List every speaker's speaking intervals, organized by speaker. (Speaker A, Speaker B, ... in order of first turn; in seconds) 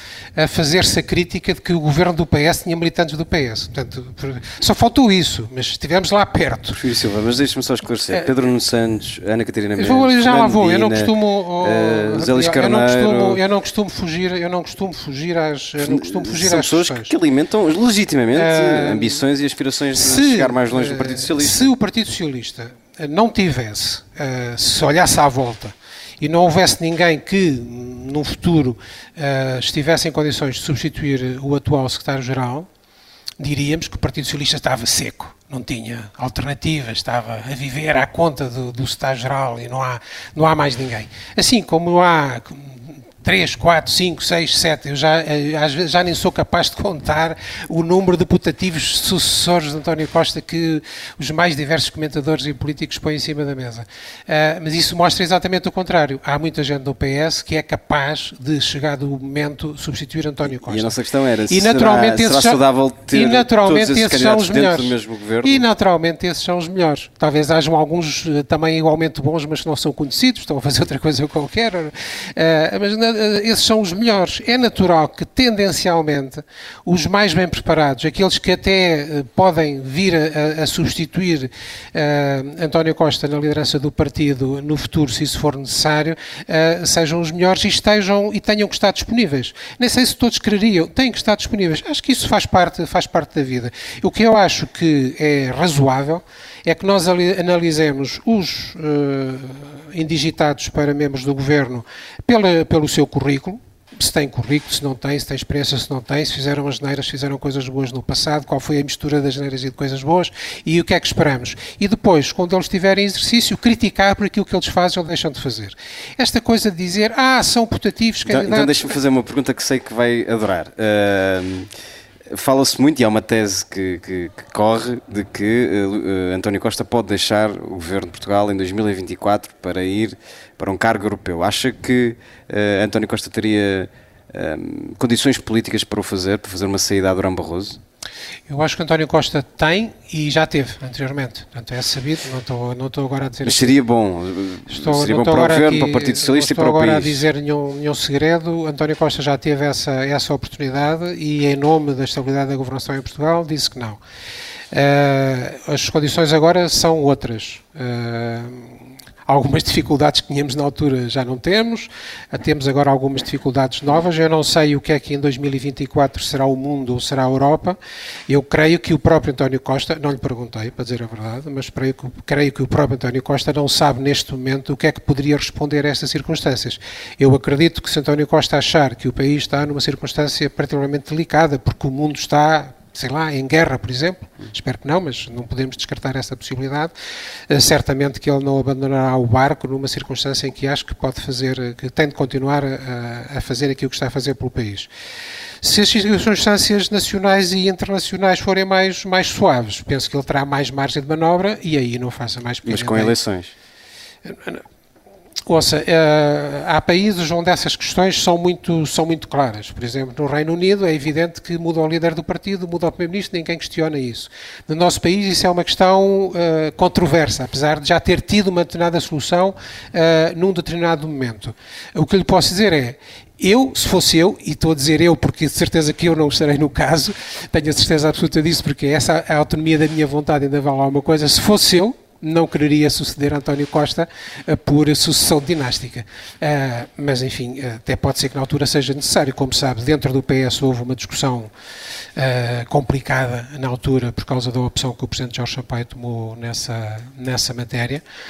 Speaker A: 0.3-6.8, 9.8-17.1, 18.3-19.2, 19.9-32.7, 33.4-60.9, 61.5-118.8, 138.5-143.7, 144.7-154.0, 154.7-167.8, 168.3-186.9, 187.5-194.9, 195.6-203.2, 204.2-204.6, 205.4-241.5, 242.2-248.0
Speaker B: 6.7-13.4, 15.8-21.7, 60.5-65.6, 118.3-121.7, 122.3-137.8, 143.4-147.2, 202.7-203.5